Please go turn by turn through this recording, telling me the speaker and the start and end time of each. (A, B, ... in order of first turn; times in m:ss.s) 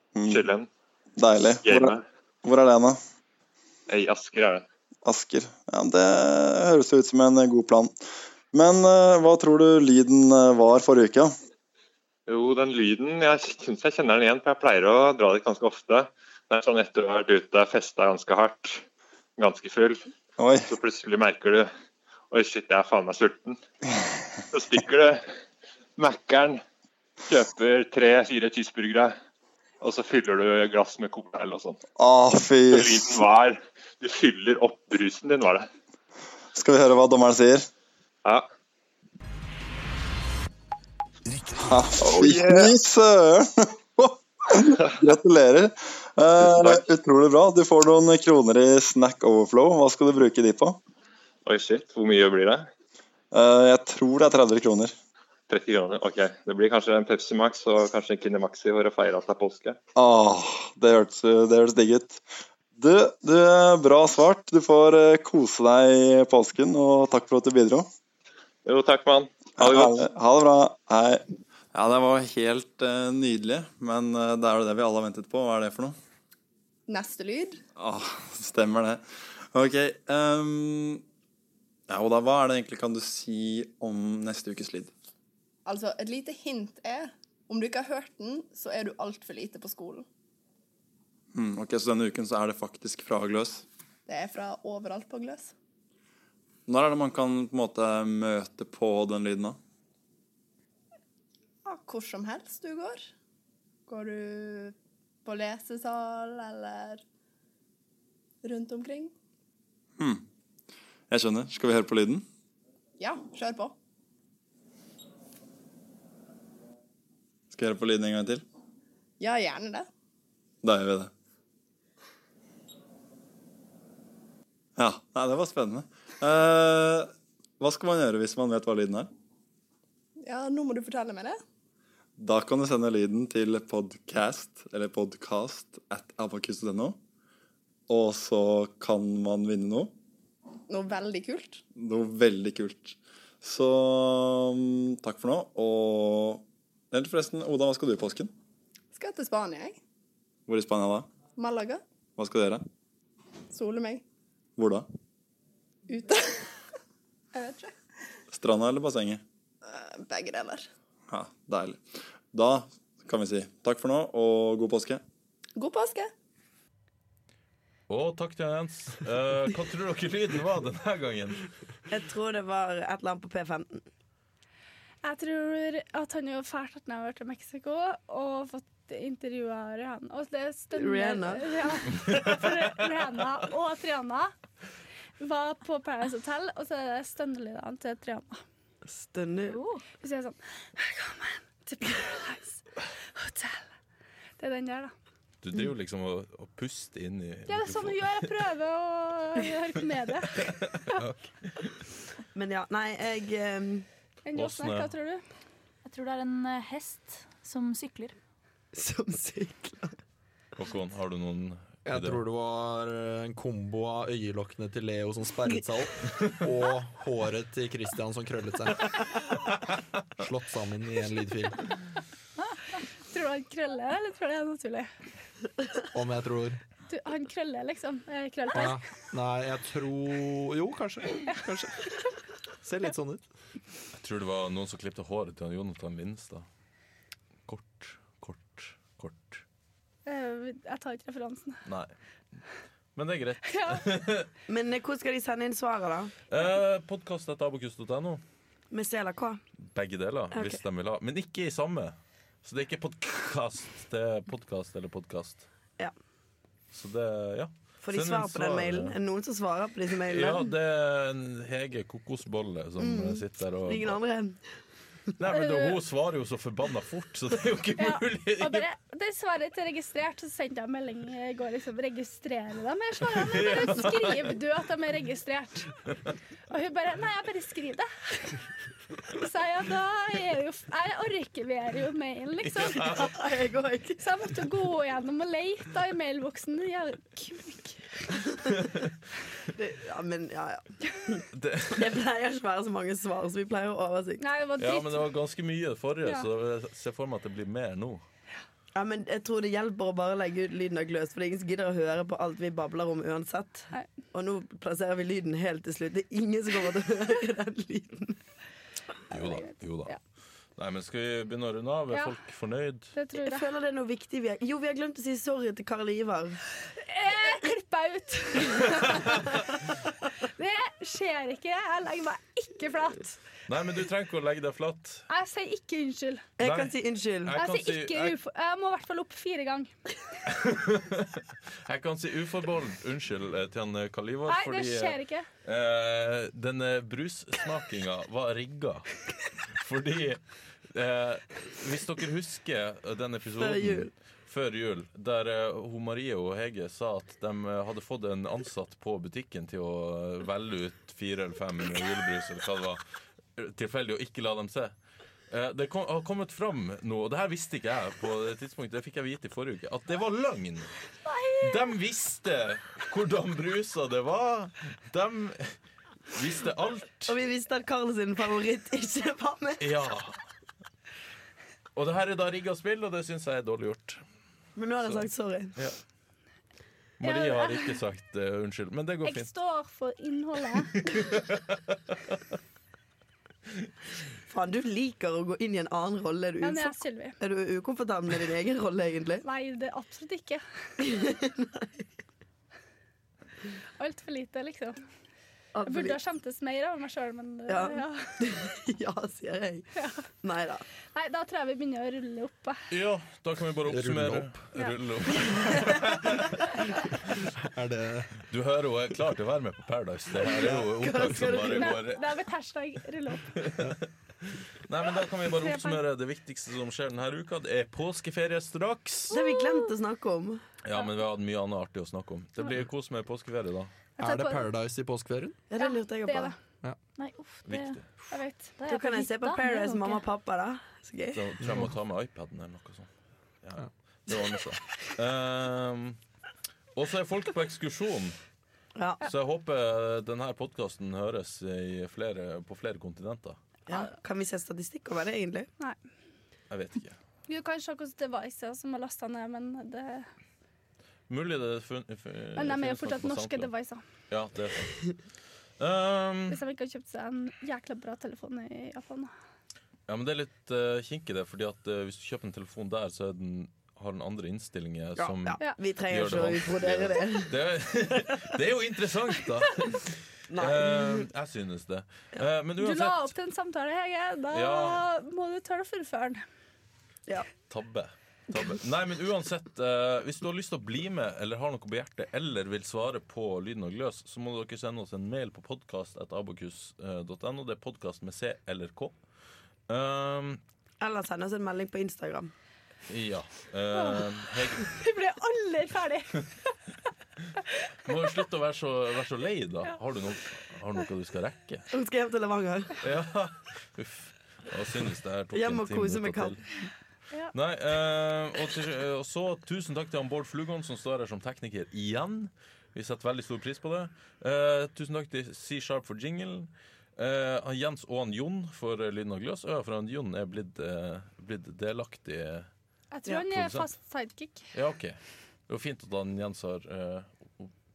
0:00.2-0:00.5 A
0:00.3-0:00.7 B
0:01.2-0:03.0 A
0:01.6-0:02.0 B
0:03.9-0:04.7 B
0:05.0-0:07.9 A
0:08.5-0:11.3 A
0:12.3-0:18.8 B
0:19.4-0:20.1 B
0:20.4-0:20.7 A
0:20.7-0:21.7 B
0:22.3-0:23.6 B
0:24.5-0:25.2 B
0:26.0-0:26.6 B
0:27.3-0:29.2 B
0:29.8-0:31.8 B
0:32.0-0:33.2 A
0:32.7-0:35.7 B
0:36.5-0:37.7 A
0:41.6-0:50.8 A
0:42.0-0:42.7 B
0:46.5-0:46.8 B
0:51.4-0:52.7 B
0:53.3-0:54.9 A
0:55.5-0:59.8 B
1:00.0-1:02.2 A
1:02.8-1:07.9 A
1:08.6-1:10.0 B
1:09.6-1:16.0 A
1:16.9-1:17.6 C
1:17.8-1:21.0 A
1:21.9-1:24.9 A
1:25.7-1:30.1 C
1:31.3-1:33.6 A
1:34.1-1:35.5 C
1:36.7-1:39.6 A
1:41.6-1:43.1 C
1:43.9-1:47.0 C
1:48.4-1:49.1 C
1:50.0-1:50.2 A
1:51.1-1:52.3 A
1:53.0-1:53.8 C
1:57.5-1:58.4 A
1:59.2-1:59.9 C
2:00.6-2:01.1 A
2:04.8-2:09.1 A
2:10.2-2:11.4 C
2:12.2-2:17.0 A
2:17.9-2:19.9 A
2:20.7-2:21.6 C
2:21.8-2:28.3 A
2:28.9-2:29.8 C
2:30.5-2:31.1 A
2:31.4-2:31.8 C
2:32.2-2:32.6 A
2:33.5-2:34.0 C
2:34.6-2:34.9 A
2:35.9-2:36.5 C
2:37.3-2:37.8 C
2:38.3-2:39.2 A
2:39.6-2:40.7 C
2:41.1-2:41.8 A
2:42.3-2:45.0 A
2:45.6-2:46.1 C
2:47.9-2:51.4 D
2:51.9-2:53.8 E
2:55.0-3:04.3 F
3:00.8-3:01.8 E
3:02.0-3:02.9 D
3:05.2-3:08.4 F
3:08.9-3:09.6 E
3:09.5-3:09.8 G
3:10.0-3:12.6 F
3:13.1-3:13.6 F
3:14.4-3:14.9 F
3:15.4-3:18.3 D
3:17.5-3:21.0 F
3:20.4-3:21.6 D
3:22.4-3:23.9 E
3:24.3-3:25.2 F
3:24.4-3:24.9 D
3:25.8-3:28.2 G
3:28.7-3:30.0 E
3:30.6-3:32.2 D
3:31.9-3:39.0 H
3:40.2-3:41.6 H
3:43.1-3:44.9 F
3:45.9-3:46.6 H
3:46.9-3:48.8 F
3:48.5-3:51.9 H
3:52.6-3:53.3 H
3:53.9-3:56.5 D
3:57.5-3:59.4 D
4:00.1-4:01.6 F
4:01.7-4:02.4 D
4:03.0-4:04.3 D
4:03.5-4:03.9 F
4:04.5-4:06.1 E
4:06.3-4:08.2 D
4:08.7-4:09.4 E
4:09.7-4:15.5 D
4:10.3-4:10.6 E
4:16.7-4:19.0 D
4:17.8-4:20.5 E
4:20.1-4:24.0 D
4:22.8-4:24.4 E
4:25.2-4:28.7 D
4:25.3-4:25.8 F
4:27.8-4:35.7 F
4:33.0-4:34.4 D
4:36.5-4:38.4 F
4:39.1-4:43.1 F
4:42.4-4:43.1 D
4:43.0-4:44.0 E
4:44.0-4:48.7 F
4:49.5-4:54.2 E
4:51.3-4:52.0 D
4:54.2-4:55.1 F
4:54.6-4:58.0 D
4:58.8-5:08.2 E
5:09.1-5:10.0 D
5:10.6-5:12.9 D
5:13.0-5:13.5 F
5:13.2-5:16.4 E
5:16.8-5:23.2 F
5:18.8-5:19.1 D
5:23.5-5:25.1 D
5:25.1-5:26.3 F
5:26.4-5:27.4 E
5:26.4-5:28.2 D
5:27.4-5:29.8 F
5:30.3-5:39.0 D
5:34.3-5:35.3 F
5:39.5-5:52.8 D
5:43.4-5:43.9 E
5:53.4-5:54.8 D
5:55.3-6:00.7 D
6:01.4-6:05.6 D
6:06.1-6:07.2 D
6:07.1-6:09.7 E
6:09.6-6:10.2 D
6:11.8-6:14.0 D
6:14.6-6:15.5 E
6:14.8-6:15.8 D
6:17.0-6:19.3 D
6:17.0-6:17.7 F
6:19.0-6:21.1 F
6:20.8-6:22.2 D
6:24.3-6:29.2 E
6:26.4-6:27.2 F
6:29.2-6:30.4 F
6:30.8-6:31.8 E
6:33.8-6:34.8 F
6:35.6-6:36.0 E
6:35.7-6:38.1 F
6:37.5-6:39.7 E
6:39.8-6:40.1 F
6:40.2-6:40.6 E
6:40.9-6:42.6 F
6:42.7-6:46.6 D
6:43.7-6:44.3 H
6:47.2-6:48.2 H
6:48.3-6:52.1 D
6:50.2-6:51.8 E
6:51.6-6:53.4 F
6:53.3-6:53.9 D
6:54.6-6:59.1 D
6:55.3-6:55.8 F
6:59.1-7:00.4 E
6:59.4-6:59.6 G
7:00.6-7:03.7 D
7:04.0-7:04.5 F
7:04.0-7:05.4 H
7:05.5-7:06.3 E
7:05.6-7:06.4 F
7:07.0-7:07.8 G
7:07.5-7:07.8 D
7:08.1-7:08.5 F
7:08.6-7:10.0 G
7:08.7-7:11.2 E
7:11.1-7:12.9 D
7:11.4-7:11.7 H
7:13.4-7:16.0 D
7:16.8-7:18.2 D
7:18.8-7:19.0 E
7:19.0-7:23.4 D
7:23.7-7:25.5 E
7:26.5-7:27.0 D
7:27.3-7:30.1 F
7:31.1-7:33.5 D
7:32.4-7:33.8 F
7:34.1-7:35.0 D
7:35.6-7:36.4 D
7:36.3-7:39.1 F
7:39.9-7:53.1 D
7:45.0-7:47.4 E
7:50.3-7:51.1 E
7:52.6-7:56.2 F
7:54.3-7:54.8 D
7:57.5-8:09.0 D
8:09.7-8:10.4 D
8:10.8-8:12.3 E
8:12.9-8:14.8 D
8:13.8-8:14.0 F
8:14.6-8:16.3 F
8:17.9-8:21.7 D
8:21.7-8:22.8 E
8:22.8-8:26.4 D
8:25.3-8:26.7 E
8:27.3-8:42.5 D
8:42.9-8:44.5 F
8:43.3-8:43.7 D
8:44.5-8:47.5 D